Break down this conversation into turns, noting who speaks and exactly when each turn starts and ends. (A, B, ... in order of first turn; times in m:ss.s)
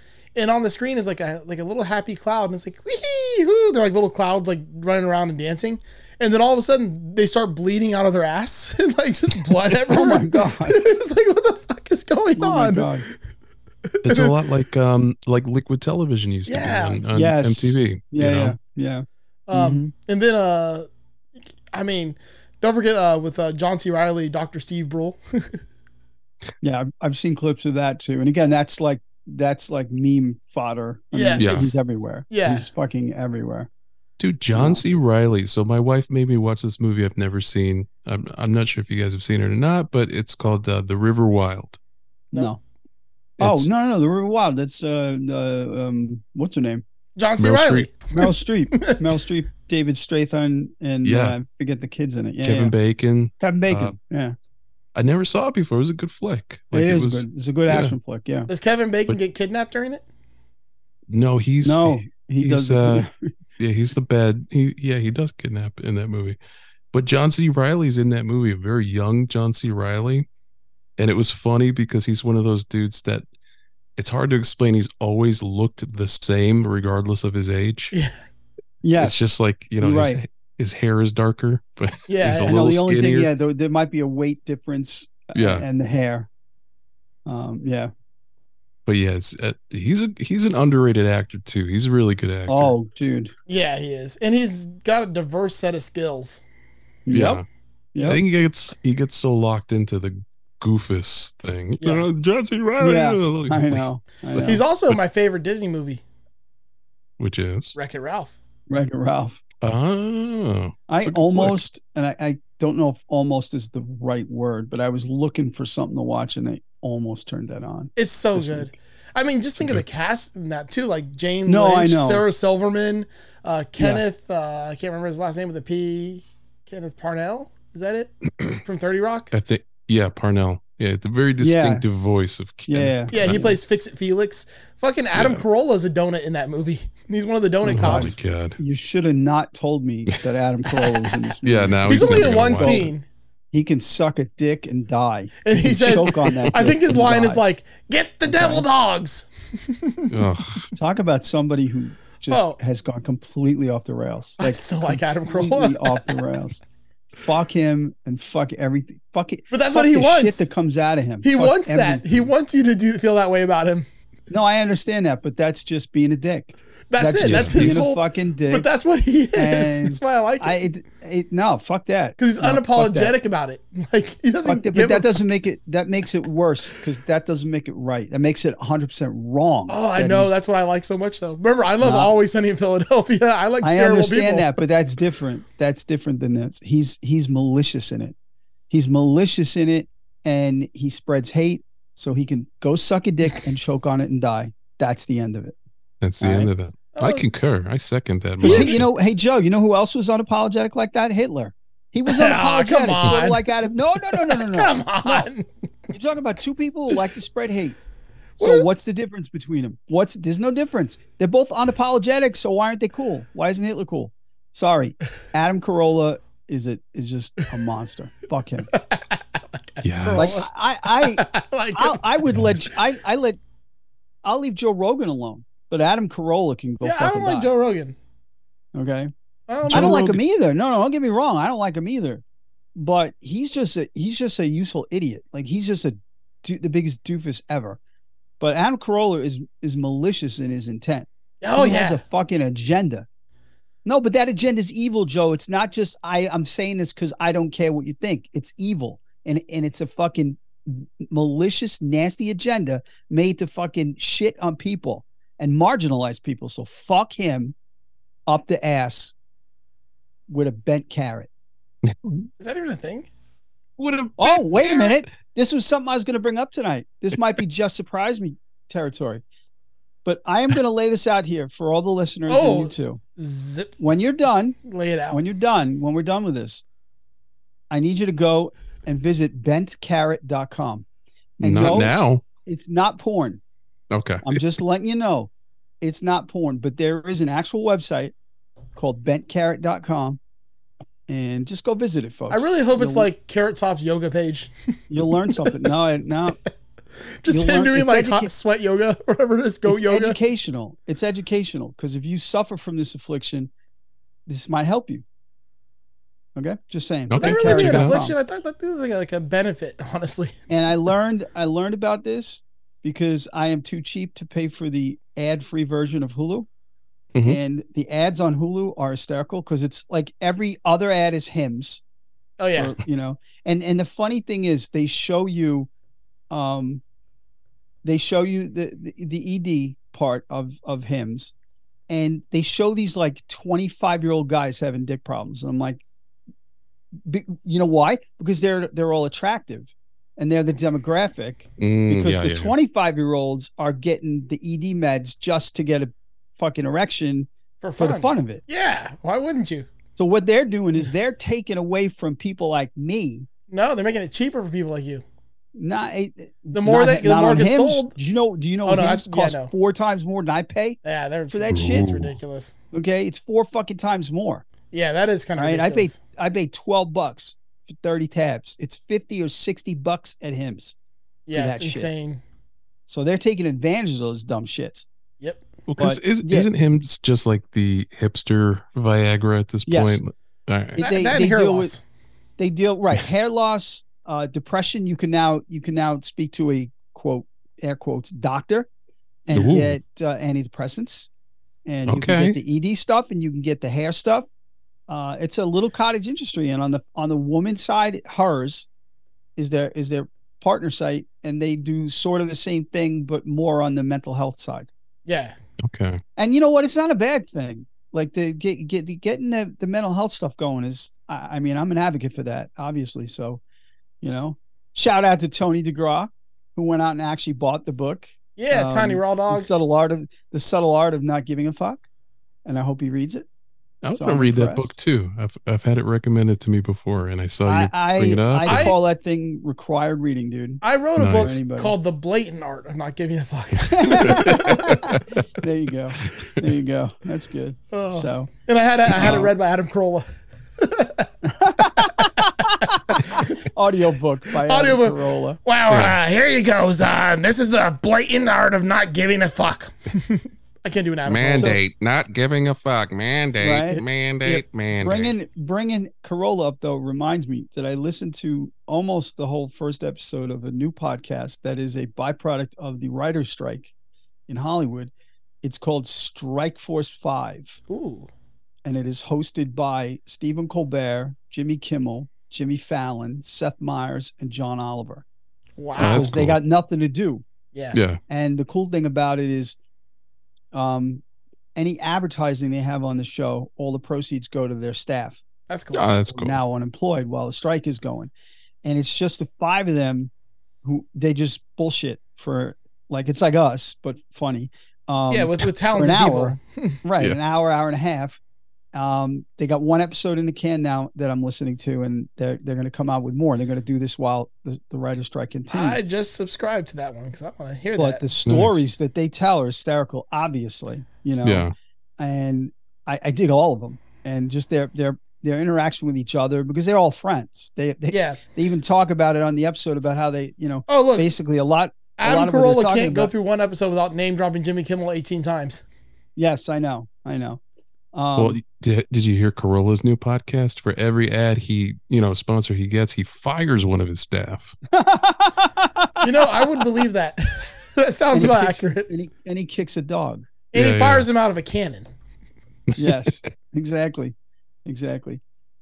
0:00.3-0:13.0 A
0:09.9-0:10.8 B
0:12.4-0:13.0 B
0:14.0-0:18.6 C
0:14.0-0:14.3 A
0:16.4-0:17.0 A
0:17.1-0:19.9 B
0:19.5-0:20.8 A
0:21.7-0:25.6 A
0:26.6-0:33.7 B
0:31.1-0:31.7 A
0:31.4-0:31.8 C
0:32.3-0:32.7 A
0:34.2-0:41.8 C
0:34.5-0:34.8 B
0:42.3-0:42.6 B
0:43.4-0:46.8 B
0:43.4-0:43.7 C
0:47.2-0:49.1 A
0:47.4-0:47.9 C
0:48.1-0:52.7 B
0:51.0-0:51.4 C
0:52.4-0:54.0 C
0:53.4-0:54.3 B
0:54.9-0:58.0 C
0:56.7-0:58.5 B
0:58.5-1:00.0 A
1:01.1-1:06.4 C
1:01.6-1:03.3 B
1:06.9-1:10.3 C
1:11.0-1:13.2 C
1:14.0-1:17.9 C
1:18.8-1:20.2 B
1:19.0-1:23.3 C
1:22.1-1:22.6 A
1:22.4-1:26.3 B
1:25.3-1:25.6 C
1:27.2-1:27.9 B
1:28.8-1:32.7 C
1:32.5-1:33.3 B
1:33.5-1:36.4 A
1:37.0-1:37.4 B
1:37.1-1:37.4 C
1:37.9-1:38.2 B
1:38.0-1:45.0 C
1:41.8-1:42.0 A
1:42.8-1:44.6 B
1:44.4-1:46.0 A
1:47.2-1:47.7 C
1:47.7-1:48.4 A
1:48.7-1:49.4 B
1:49.6-1:51.6 C
1:50.9-1:58.7 B
1:58.0-2:09.3 A
1:59.6-1:59.8 C
2:01.5-2:02.2 B
2:03.8-2:04.0 B
2:09.3-2:13.5 C
2:11.4-2:11.8 B
2:12.7-2:13.6 B
2:13.1-2:18.1 A
2:15.1-2:15.4 C
2:17.6-2:22.9 B
2:17.7-2:18.6 C
2:20.8-2:21.1 A
2:21.4-2:22.9 C
2:21.8-2:23.0 A
2:23.5-2:27.4 B
2:25.4-2:30.2 A
2:28.2-2:28.7 B
2:30.1-2:30.7 C
2:30.7-2:36.6 B
2:32.3-2:32.6 A
2:34.4-2:36.3 A
2:37.2-2:42.3 B
2:39.5-2:40.5 A
2:41.2-2:43.8 A
2:44.3-2:48.6 B
2:46.9-2:50.6 A
2:47.2-2:47.9 C
2:49.3-2:53.1 B
2:52.2-2:55.2 A
2:54.4-3:00.4 B
2:59.7-3:04.6 A
3:01.8-3:02.1 B
3:03.6-3:08.1 B
3:08.7-3:15.6 B
3:16.0-3:18.9 C
3:16.2-3:16.5 B
3:16.9-3:17.2 A
3:18.4-3:25.3 B
3:18.4-3:18.8 A
3:22.1-3:25.4 A
3:25.9-3:27.8 B
3:28.4-3:28.7 A
3:28.4-3:38.7 B
3:38.7-3:42.1 A
3:39.8-3:40.5 C
3:40.2-3:43.4 B
3:44.2-3:47.5 B
3:46.8-3:48.0 A
3:48.7-3:49.1 B
3:49.5-3:50.1 A
3:49.6-3:50.2 C
3:49.7-3:52.2 B
3:52.8-3:57.8 B
3:58.4-4:03.0 B
4:01.4-4:02.0 A
4:03.8-4:17.5 B
4:18.3-4:19.1 B
4:20.3-4:21.3 B
4:21.8-4:22.3 C
4:22.4-4:23.1 A
4:23.8-4:25.0 C
4:24.2-4:29.2 B
4:30.0-4:33.0 B
4:32.3-4:33.8 A
4:33.8-4:34.6 B
4:34.6-4:35.2 A
4:35.1-4:36.6 B
4:37.7-4:40.8 B
4:41.4-4:43.4 B
4:41.4-4:42.2 C
4:43.9-4:44.4 C
4:44.2-4:45.3 B
4:45.8-4:48.1 B
4:48.8-4:50.2 B
4:51.1-4:53.1 B
4:52.3-4:54.5 A
4:54.9-4:56.4 B
4:55.1-4:55.6 A
4:57.2-5:00.2 A
4:57.3-4:58.3 B
4:59.6-5:03.5 B
5:04.3-5:05.0 B
5:06.4-5:08.1 B
5:07.1-5:08.0 C
5:07.2-5:10.3 A
5:10.5-5:16.5 B
5:17.1-5:17.4 C
5:17.2-5:21.8 B
5:22.4-5:22.7 A
5:22.6-5:25.7 B
5:26.3-5:26.8 B
5:27.8-5:31.3 B
5:31.9-5:35.8 B
5:37.0-5:48.4 B
5:41.6-5:42.5 C
5:47.6-5:49.7 A
5:50.0-5:53.3 B
5:53.5-5:55.0 A
5:55.5-6:00.8 B
5:56.5-5:58.0 A
5:58.6-5:59.5 A
6:00.8-6:02.6 A
6:01.3-6:01.9 B
6:01.5-6:02.2 C
6:02.7-6:04.4 B
6:04.7-6:06.0 A
6:05.4-6:10.8 B
6:11.3-6:12.2 A
6:11.3-6:11.9 B
6:12.9-6:14.8 B
6:15.7-6:20.8 C
6:15.8-6:16.5 B
6:19.7-6:20.0 B
6:20.8-6:21.7 B
6:20.8-6:21.8 A
6:22.4-6:28.7 B
6:29.2-6:31.1 B
6:29.3-6:29.8 C
6:31.6-6:34.3 B
6:31.9-6:32.4 C
6:34.9-6:38.7 B
6:39.4-6:44.7 B
6:45.1-6:45.4 A
6:45.6-6:46.0 C
6:46.2-6:53.4 B
6:54.0-7:01.8 B
6:58.4-6:59.5 A
7:02.4-7:03.3 B
7:03.8-7:08.7 C
7:03.9-7:04.7 B
7:07.4-7:11.8 B
7:08.4-7:08.7 A
7:10.6-7:14.8 A
7:11.0-7:11.3 C
7:13.6-7:18.3 B
7:13.9-7:15.2 C
7:16.0-7:16.4 C
7:17.7-7:20.0 A
7:19.0-7:19.3 B
7:20.6-7:21.1 A
7:21.2-7:25.4 B
7:21.6-7:23.3 A
7:24.4-7:31.6 A
7:25.7-7:26.0 C
7:31.0-7:35.1 C
7:33.4-7:43.7 B
7:44.3-7:44.9 B
7:45.4-7:47.6 B
7:47.7-7:48.1 A
7:48.6-7:55.0 B
7:55.6-7:56.1 A
7:55.8-7:56.4 C
7:55.8-7:57.2 B
7:57.5-7:57.8 A
7:57.7-7:58.0 C
7:58.1-7:59.6 B
8:00.5-8:01.0 B
8:01.6-8:05.2 B
8:05.5-8:05.9 A
8:05.7-8:06.4 C
8:06.1-8:08.1 B
8:08.6-8:10.1 B
8:10.6-8:18.2 B
8:15.1-8:16.7 A
8:18.7-8:25.8 B
8:25.5-8:28.0 A
8:27.8-8:43.1 B
8:28.2-8:28.6 C
8:31.2-8:31.5 C
8:37.9-8:38.2 A
8:40.7-8:41.1 A
8:42.0-8:45.6 A
8:46.2-8:47.4 B
8:47.9-8:48.4 B
8:48.2-8:54.6 C
8:54.7-8:56.6 B
8:56.0-8:58.9 A
8:58.1-9:00.3 B
9:00.5-9:01.9 A
9:00.5-9:01.1 C
9:02.7-9:03.1 C
9:02.8-9:05.2 B